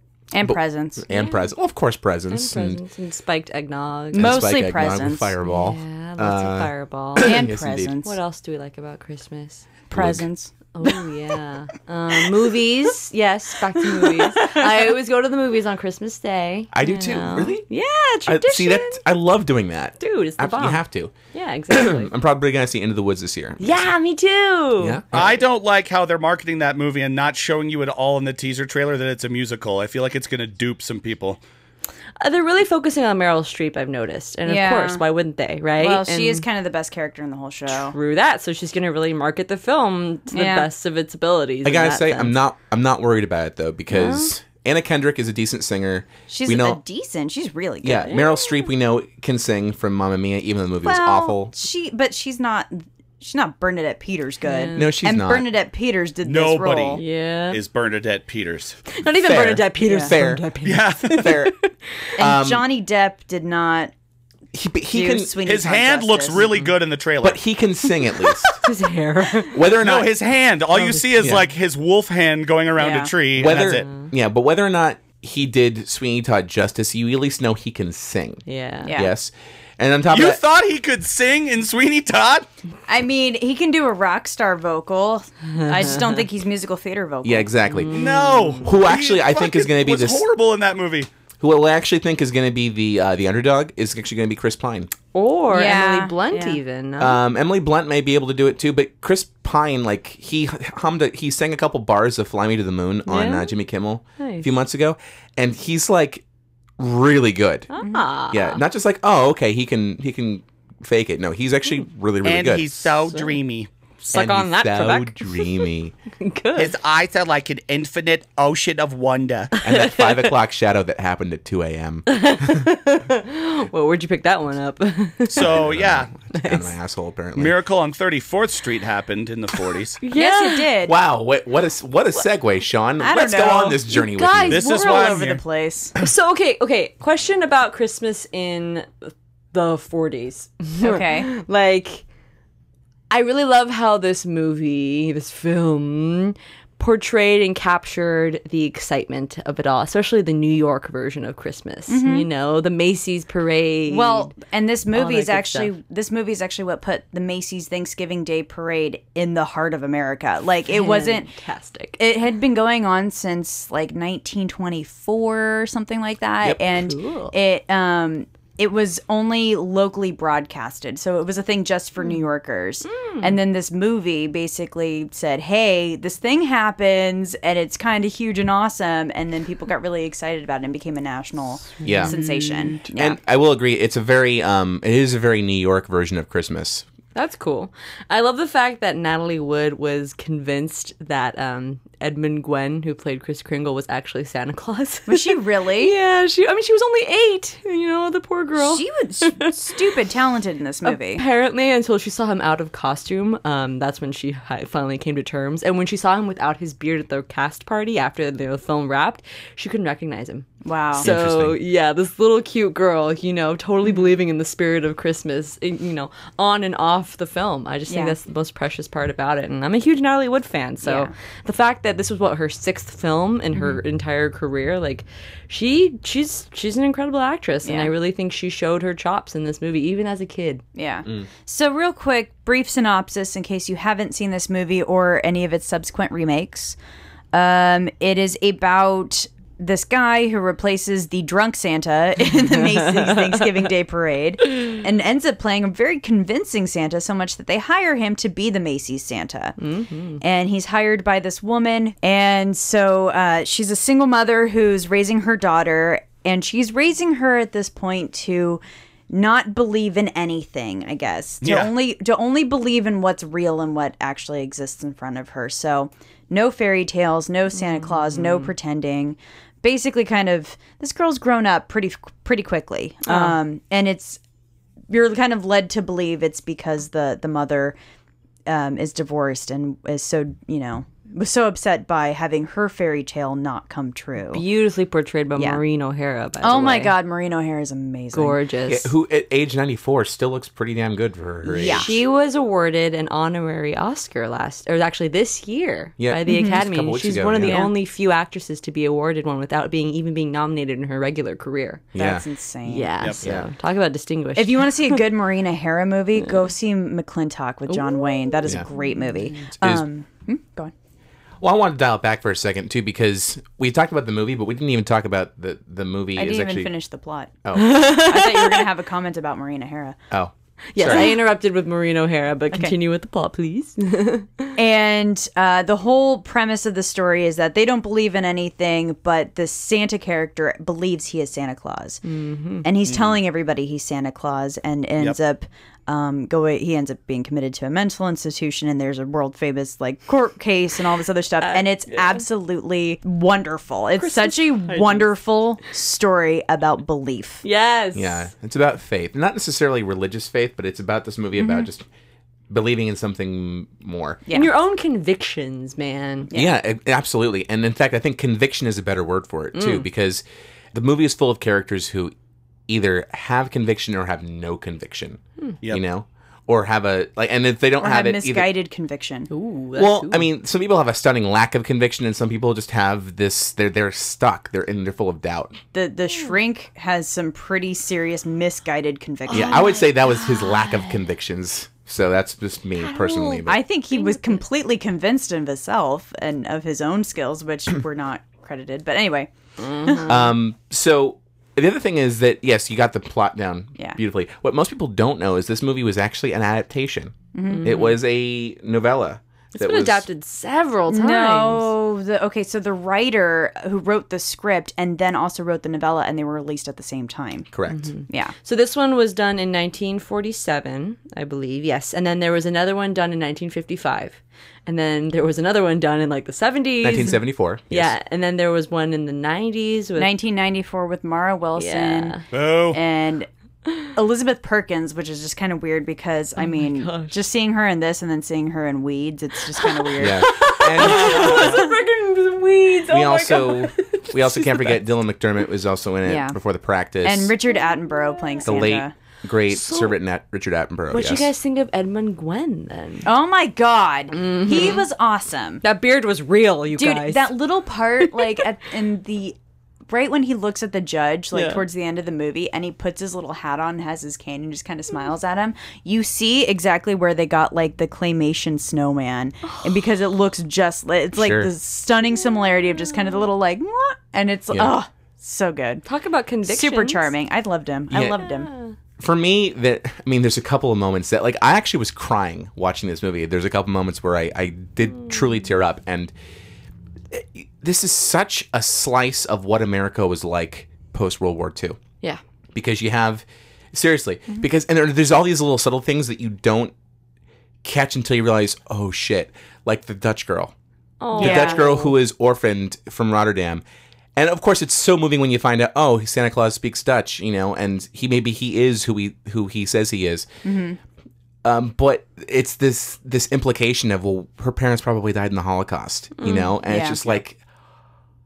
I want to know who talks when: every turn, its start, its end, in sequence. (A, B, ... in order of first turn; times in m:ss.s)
0:00.3-0:01.0 A
0:00.4-0:02.8 B
0:01.1-0:01.5 C
0:02.3-0:04.4 C
0:04.1-0:05.3 A
0:04.1-0:07.9 B
0:05.4-0:07.4 C
0:07.2-0:08.2 A
0:08.0-0:09.6 C
0:09.9-0:10.5 A
0:09.9-0:10.3 B
0:10.7-0:19.0 C
0:14.0-0:14.5 A
0:16.7-0:17.6 B
0:18.2-0:21.1 B
0:20.0-0:22.1 C
0:21.7-0:23.8 B
0:23.6-0:25.0 C
0:24.8-0:25.4 B
0:25.1-0:31.4 D
0:32.2-0:36.4 C
0:34.4-0:35.0 A
0:35.8-0:37.9 A
0:37.7-0:42.3 C
0:40.3-0:40.7 A
0:41.6-0:46.8 B
0:43.9-0:44.3 C
0:46.3-0:48.2 A
0:47.8-0:51.5 B
0:48.1-0:48.4 C
0:50.8-0:57.0 A
0:54.4-0:55.0 C
0:54.8-0:55.5 B
0:56.2-0:58.8 D
0:56.9-0:57.6 C
0:58.9-1:02.1 C
0:59.2-1:00.4 B
0:59.8-1:00.1 A
1:00.6-1:01.4 D
1:01.0-1:01.6 B
1:02.2-1:02.6 B
1:02.2-1:03.9 A
1:04.5-1:05.4 B
1:04.9-1:06.5 A
1:05.4-1:07.4 D
1:06.4-1:06.7 C
1:07.2-1:08.6 B
1:08.0-1:09.6 C
1:09.5-1:10.1 B
1:09.8-1:13.8 D
1:10.7-1:11.4 C
1:12.8-1:13.1 A
1:13.4-1:20.4 B
1:13.5-1:14.1 C
1:18.4-1:19.0 C
1:18.8-1:19.1 A
1:20.1-1:22.4 D
1:22.9-1:27.5 A
1:25.5-1:26.2 C
1:27.2-1:28.0 B
1:27.7-1:28.7 C
1:27.9-1:31.1 D
1:28.6-1:30.2 B
1:31.4-1:34.9 B
1:35.1-1:37.2 C
1:35.5-1:36.6 A
1:37.0-1:46.2 B
1:43.1-1:43.5 C
1:44.2-1:44.5 C
1:46.8-1:47.7 B
1:47.7-1:48.6 C
1:48.3-1:53.0 B
1:52.2-1:53.7 D
1:54.0-1:55.6 C
1:54.1-1:55.9 B
1:56.2-1:56.7 C
1:56.6-1:59.6 D
1:59.6-2:00.3 C
1:59.6-2:02.6 B
2:02.1-2:05.6 C
2:05.3-2:06.1 D
2:05.4-2:07.5 B
2:06.3-2:06.7 C
2:07.4-2:10.0 D
2:10.0-2:10.8 C
2:10.0-2:11.0 A
2:10.8-2:14.6 B
2:13.0-2:15.9 A
2:14.2-2:14.5 C
2:14.5-2:15.4 D
2:16.0-2:22.0 C
2:20.8-2:21.3 A
2:23.1-2:34.3 C
2:31.9-2:32.3 A
2:33.9-2:41.3 A
2:34.9-2:35.7 C
2:40.6-2:42.0 C
2:42.0-3:03.2 A
2:46.6-2:47.3 C
2:52.8-2:53.4 C
3:01.7-3:02.8 C
3:01.8-3:02.2 B
3:02.9-3:06.8 B
3:07.1-3:19.5 C
3:15.1-3:15.9 A
3:18.6-3:21.2 A
3:20.8-3:50.6 C
3:30.6-3:31.1 A
3:31.0-3:31.6 B
3:37.9-3:38.2 A
3:40.8-3:41.1 A
3:47.6-3:47.9 A
3:50.7-3:56.8 A
3:57.3-4:09.6 A
4:09.6-4:10.2 C
4:10.2-4:34.2 A
4:21.4-4:21.7 D
4:27.5-4:28.5 C
4:33.0-4:33.4 C
4:34.9-4:37.8 A
4:38.5-4:44.4 A
4:44.2-4:46.9 C
4:45.4-4:45.6 A
4:46.4-4:48.4 A
4:48.1-4:48.9 C
4:48.7-4:51.9 B
4:51.4-4:51.9 A
4:51.6-5:01.9 C
4:56.0-4:57.6 B
4:56.3-4:56.6 A
4:57.4-4:57.7 A
5:01.9-5:02.2 B
5:02.0-5:02.9 A
5:02.6-5:05.0 C
5:03.2-5:03.5 B
5:04.4-5:10.7 A
5:07.7-5:09.0 C
5:09.6-5:09.9 B
5:11.4-5:16.7 B
5:16.1-5:20.0 A
5:17.4-5:17.8 B
5:17.5-5:18.7 C
5:20.1-5:21.1 B
5:20.7-5:24.6 C
5:20.8-5:21.1 A
5:24.6-5:32.0 A
5:32.0-5:32.7 C
5:32.6-5:47.4 A
5:32.8-5:33.2 D
5:41.4-5:42.2 C
5:44.0-5:45.1 C
5:47.4-5:48.3 C
5:47.9-5:51.8 B
5:52.5-5:54.2 B
5:54.2-5:54.5 A
5:54.3-5:56.3 C
5:56.3-6:02.1 B
5:59.5-5:59.8 C
6:02.7-6:08.5 B
6:07.8-6:09.3 A
6:09.3-6:10.2 C
6:09.8-6:15.6 B
6:15.7-6:19.8 A
6:19.3-6:20.5 C
6:19.3-6:23.6 B
6:22.8-6:23.4 C
6:23.0-6:30.2 A
6:23.9-6:24.3 C
6:29.6-6:30.2 C
6:30.1-6:40.0 B
6:37.3-6:37.7 A
6:37.5-6:38.0 C
6:39.5-6:41.7 C
6:40.9-6:47.5 A
6:47.5-6:47.9 B
6:47.7-7:00.1 C
6:48.1-6:48.3 A
6:56.8-6:57.9 B
7:00.0-7:02.2 A
7:01.6-7:02.2 C
7:02.3-7:02.8 D
7:02.7-7:03.3 A
7:03.9-7:10.4 A
7:06.4-7:07.1 C
7:09.6-7:14.8 C
7:10.0-7:11.6 B
7:12.9-7:17.3 B
7:16.0-7:16.4 A
7:17.0-7:18.9 A
7:18.4-7:21.3 B
7:19.5-7:19.9 C
7:20.9-7:23.1 C
7:23.0-7:25.6 A
7:24.1-7:24.9 C
7:25.6-7:27.3 C
7:26.7-7:29.4 A
7:28.0-7:28.4 C
7:29.9-7:45.8 A
7:31.3-7:31.6 C
7:41.1-7:41.5 B
7:44.5-7:44.8 B
7:45.8-7:47.1 C
7:46.4-7:48.5 A
7:47.9-7:48.2 B
7:48.2-7:48.7 C
7:49.0-7:56.1 B
7:57.1-8:01.8 B
8:02.5-8:06.7 B
8:07.6-8:10.5 B
8:11.0-8:11.9 C
8:11.2-8:13.6 B
8:11.2-8:11.6 A
8:14.2-8:20.3 B
8:20.4-8:20.8 A
8:21.4-8:27.4 B
8:26.2-8:26.6 C
8:26.6-8:27.0 A